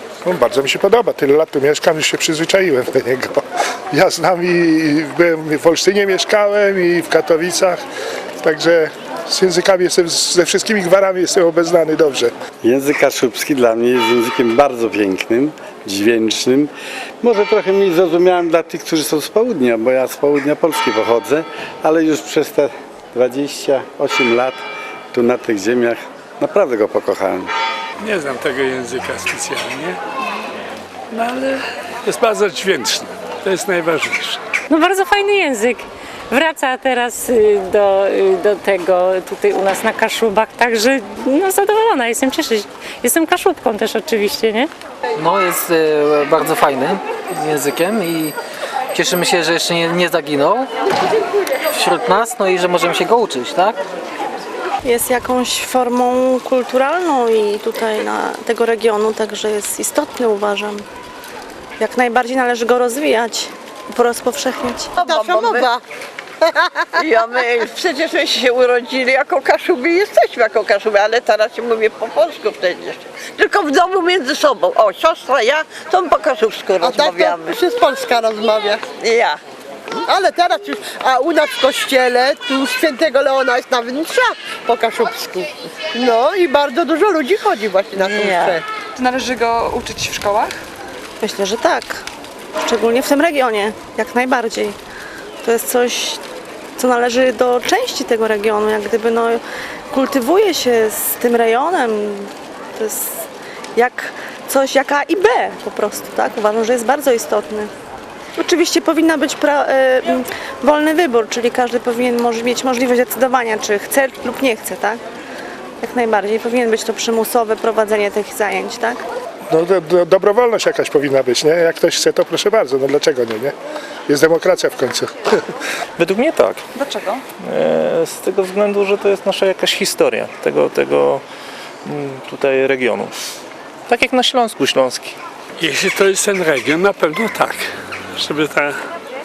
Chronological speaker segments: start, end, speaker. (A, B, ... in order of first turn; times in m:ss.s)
0:00.2-0:07.8 A
0:08.4-0:12.3 A
0:12.6-0:16.7 B
0:17.2-0:24.6 B
0:25.1-0:27.5 B
0:28.0-0:30.0 C
0:31.1-0:34.4 C
0:34.7-0:44.7 D
0:45.2-0:48.3 E
0:48.9-0:50.7 E
0:51.7-0:53.8 E
0:54.8-1:00.8 F
1:01.8-1:05.0 F
1:05.0-1:05.8 G
1:05.0-1:05.7 H
1:06.4-1:07.4 G
1:07.0-1:17.6 H
1:16.8-1:18.8 G
1:19.0-1:19.4 H
1:20.0-1:28.6 G
1:28.0-1:28.5 H
1:28.9-1:30.5 I
1:31.2-1:32.0 F
1:32.6-1:34.8 F
1:35.4-1:36.2 F
1:36.8-1:43.2 F
1:43.8-1:47.7 F
1:48.4-1:55.0 F
1:55.8-1:59.0 F
1:59.5-2:03.5 A
2:04.1-2:05.1 A
2:06.0-2:06.6 J
2:06.8-2:07.2 I
2:07.5-2:11.2 J
2:11.9-2:13.1 J
2:13.9-2:15.1 J
2:15.6-2:18.8 C